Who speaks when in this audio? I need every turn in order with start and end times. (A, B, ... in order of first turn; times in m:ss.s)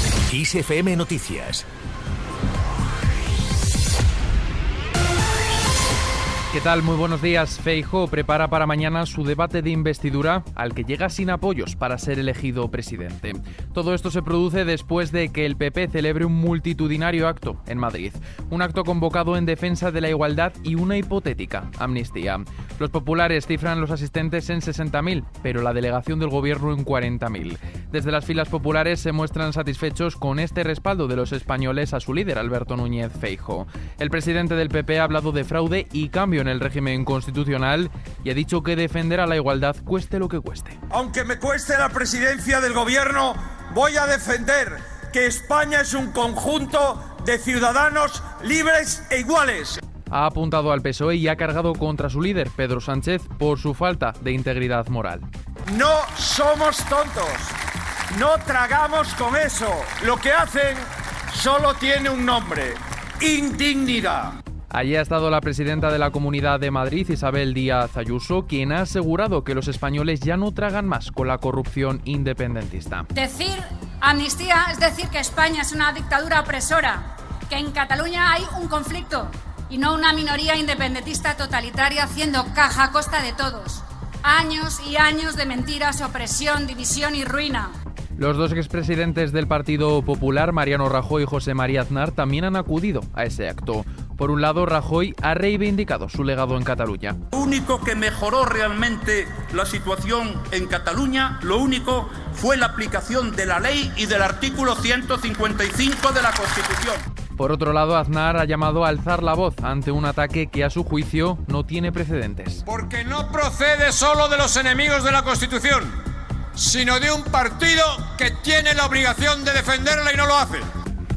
0:00.3-0:01.6 A
0:06.5-0:40.8 B
0:40.9-0:49.8 C
0:50.1-0:55.2 B
0:55.7-0:57.5 C
0:58.1-1:04.4 C
1:04.7-1:13.1 B
1:13.1-1:27.7 D
1:28.2-1:37.2 B
1:37.3-1:47.0 E
1:47.4-1:52.6 B
1:52.6-1:56.0 A
1:56.5-2:00.7 A